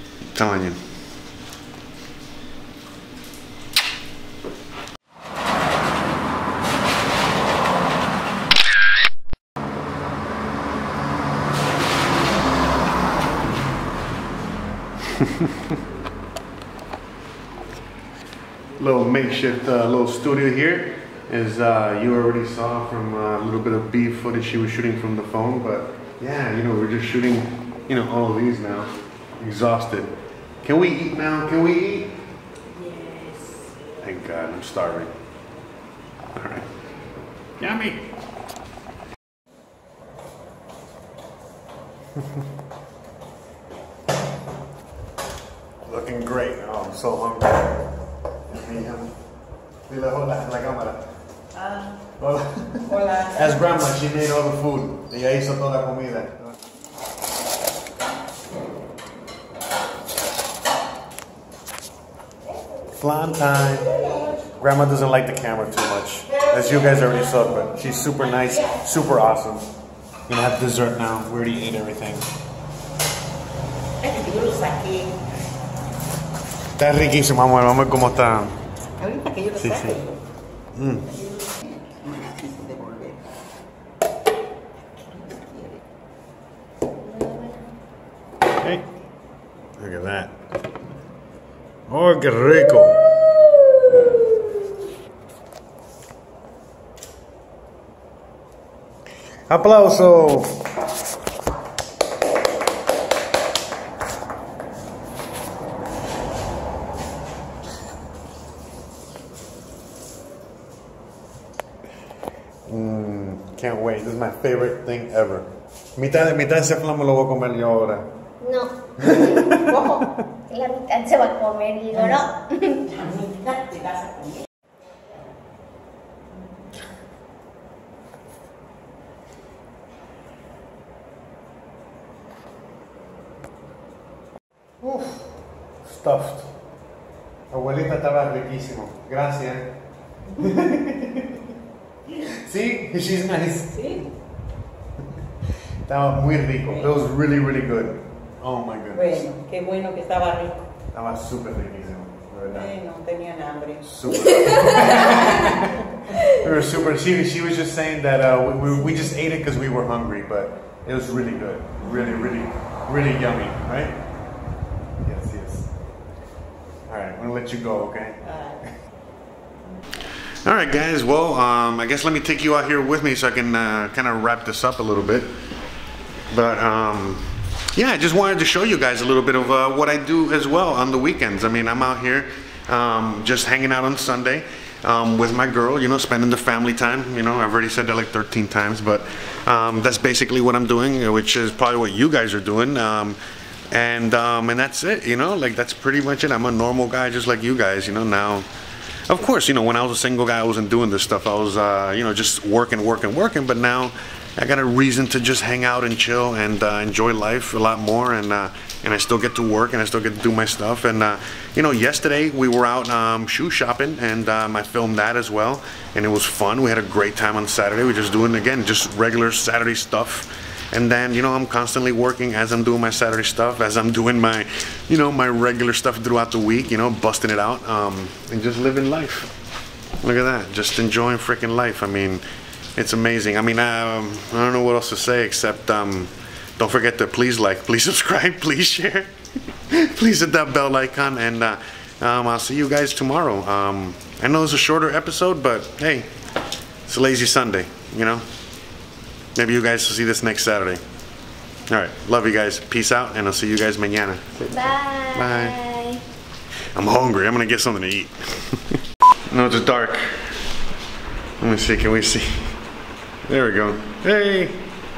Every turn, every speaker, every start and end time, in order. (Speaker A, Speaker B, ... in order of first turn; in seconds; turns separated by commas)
Speaker A: 0.3-0.8, Speaker A: 15.2-15.4, Speaker A: 18.8-32.1, Speaker B: 32.8-33.4, Speaker A: 34.0-35.1, Speaker A: 36.3-36.7, Speaker A: 37.6-38.1, Speaker A: 45.8-47.9, Speaker A: 48.5-49.1, Speaker A: 49.9-51.1, Speaker A: 52.2-56.5, Speaker A: 62.9-69.7, Speaker A: 70.3-72.3, Speaker C: 74.2-75.0, Speaker A: 76.8-78.6, Speaker A: 79.4-80.1, Speaker A: 80.7-81.2, Speaker B: 87.1-87.6, Speaker A: 88.6-88.9, Speaker A: 89.8-90.3, Speaker A: 91.9-93.2, Speaker A: 99.5-100.7, Speaker A: 112.7-118.1, Speaker B: 118.4-118.7, Speaker A: 119.0-120.2, Speaker B: 120.5-122.9, Speaker C: 123.0-124.0, Speaker A: 134.8-135.3, Speaker A: 135.8-136.5, Speaker A: 137.5-139.7, Speaker A: 140.3-141.4, Speaker A: 142.1-144.0, Speaker A: 145.8-149.3, Speaker C: 149.7-150.3, Speaker A: 150.9-152.9, Speaker A: 153.8-164.0, Speaker A: 165.0-165.7, Speaker A: 166.9-168.7, Speaker A: 170.4-175.3, Speaker A: 176.3-193.2, Speaker A: 193.7-198.5, Speaker A: 199.1-229.3, Speaker A: 230.0-232.2, Speaker A: 232.8-239.1, Speaker A: 239.7-246.1, Speaker A: 246.8-248.2, Speaker A: 249.3-250.8, Speaker A: 251.7-255.6, Speaker B: 254.5-256.0, Speaker A: 256.7-260.3, Speaker A: 261.4-262.6, Speaker A: 263.3-264.6